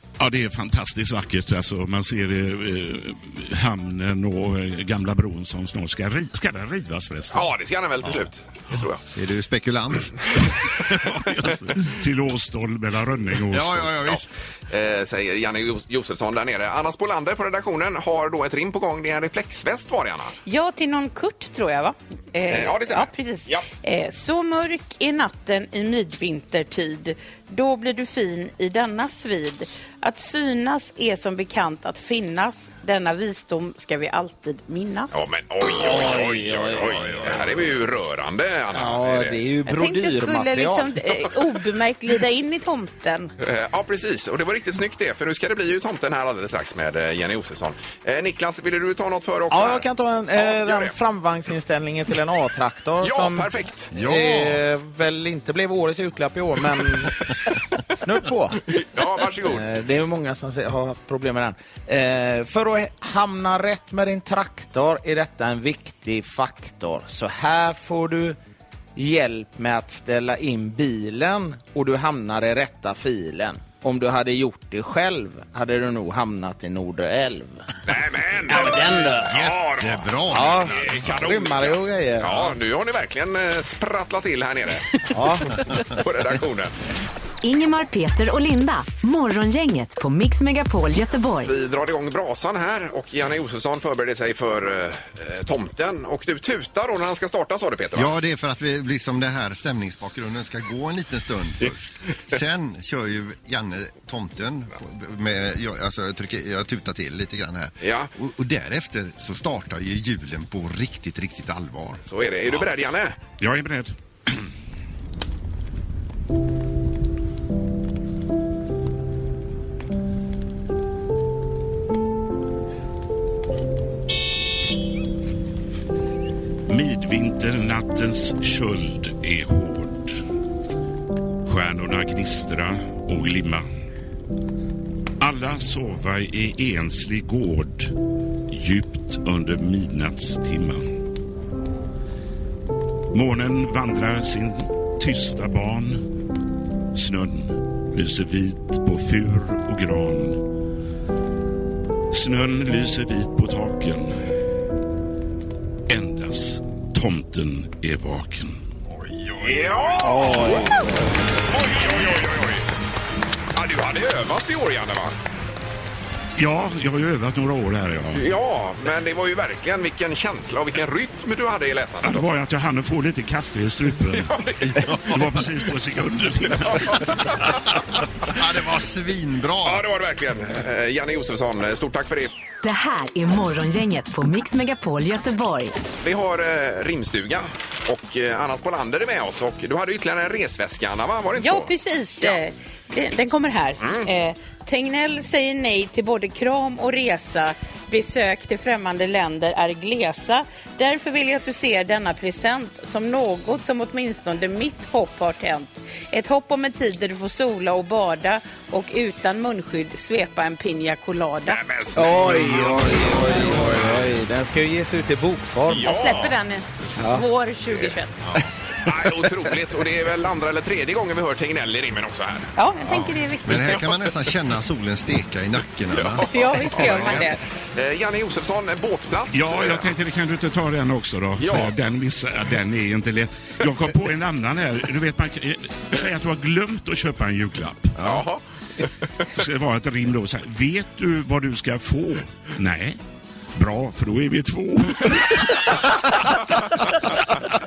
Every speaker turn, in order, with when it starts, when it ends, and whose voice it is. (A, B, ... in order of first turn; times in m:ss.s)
0:00.2-0:07.4 A
0:07.3-0:09.0 B
0:09.1-0:10.2 C
0:10.6-0:14.0 A
0:13.5-0:14.3 C
0:14.0-0:20.4 B
0:20.4-0:35.3 D
0:22.5-0:23.6 B
0:35.1-0:39.4 B
0:35.8-0:37.4 E
0:38.7-0:41.0 E
0:39.6-0:43.3 D
0:43.4-0:50.9 B
0:49.5-0:57.1 E
0:53.0-0:53.9 B
0:53.9-0:54.6 C
0:58.0-0:58.6 E
0:58.7-0:59.6 B
0:59.4-1:08.4 E
1:09.0-1:17.7 E
1:17.8-1:25.1 B
1:18.5-1:19.4 E
1:19.2-1:21.1 C
1:20.3-1:22.6 E
1:25.1-1:25.6 E
1:25.8-1:26.7 B
1:27.4-1:31.5 F
1:31.4-1:38.1 B
1:38.0-1:52.0 C
1:47.8-1:48.1 B
1:52.0-1:53.2 B
1:53.4-1:54.4 A
2:06.7-2:10.2 A
2:11.4-2:13.6 A
2:15.2-2:17.9 A
2:18.5-2:20.9 A
2:23.1-2:26.0 A
2:26.9-2:30.4 A
2:32.1-2:34.2 A
2:35.9-2:38.6 A
2:39.4-2:40.7 B
2:40.0-2:41.0 E
2:41.5-2:42.6 B
2:43.5-2:45.1 B
2:46.4-2:48.2 A
2:48.1-2:52.3 B
2:52.0-2:54.3 A
2:54.1-2:55.0 B
2:54.6-2:55.1 C
2:55.0-2:57.3 A
2:56.8-2:57.1 B
2:58.3-2:59.8 C
2:59.6-3:02.3 B
3:02.6-3:05.8 F
3:06.0-3:11.7 B
3:11.4-3:31.6 D
3:13.8-3:14.1 B
3:31.5-3:32.1 B
3:31.9-3:36.1 E
3:35.7-3:36.3 B
3:35.8-3:38.3 D
3:37.0-3:37.2 E
3:38.8-3:42.5 B
3:42.6-3:43.8 D
3:43.4-3:47.3 C
3:45.9-3:49.9 B
3:46.3-3:47.4 D
3:49.3-3:58.2 A
3:51.4-3:51.7 B
3:58.0-3:58.4 B
3:59.3-4:03.0 A
4:03.5-4:05.8 A